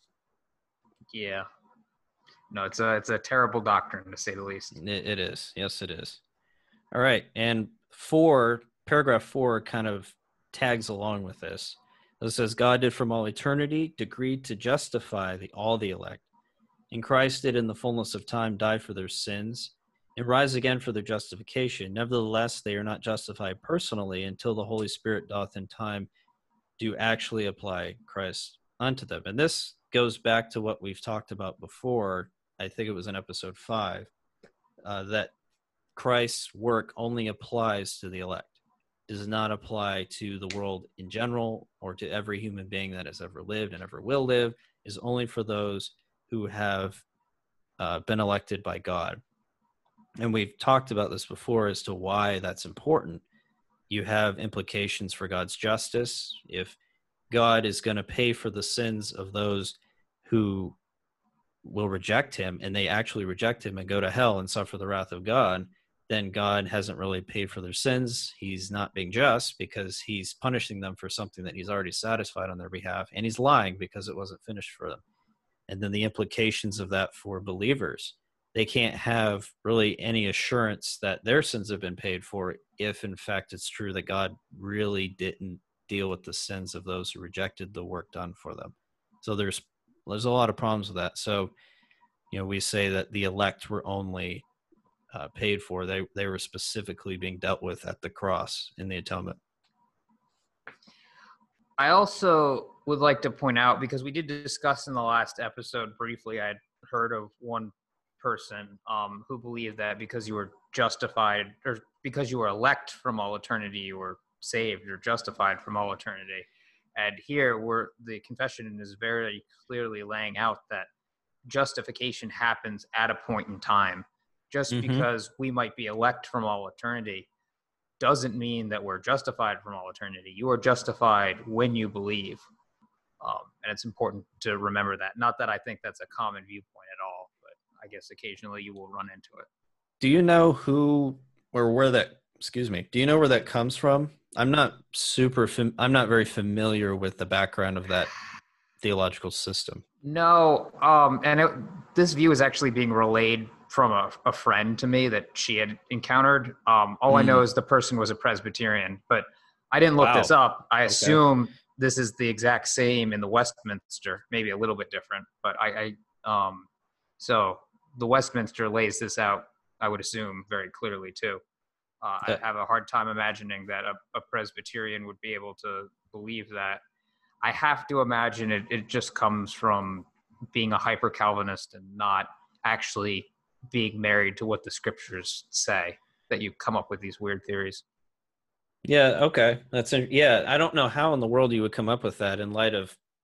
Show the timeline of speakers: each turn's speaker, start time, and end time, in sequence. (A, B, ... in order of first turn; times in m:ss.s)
0:01.1-0:01.4 A
0:02.5-0:04.7 A
0:04.7-0:06.2 B
0:06.9-0:16.2 B
0:16.9-0:26.1 B
0:26.8-0:34.1 B
0:34.8-0:35.3 B
0:36.0-0:47.0 B
0:47.8-0:49.2 B
0:50.2-0:53.2 B
0:53.9-0:56.8 B
0:57.3-1:00.8 B
1:01.6-1:15.0 B
1:15.7-1:31.5 B
1:32.3-1:34.4 B
1:35.1-1:39.4 B
1:41.8-2:00.9 A
2:01.4-2:07.3 A
2:04.7-2:05.1 B
2:08.0-2:12.4 A
2:13.2-2:19.5 A
2:20.0-2:28.1 B
2:28.8-2:29.8 B
2:30.0-2:46.7 A
2:37.1-2:37.4 B
2:40.0-2:40.3 B
2:40.8-2:41.2 B
2:47.2-2:51.4 A
2:52.0-2:56.8 A
2:57.4-3:07.8 A
3:08.8-3:13.0 B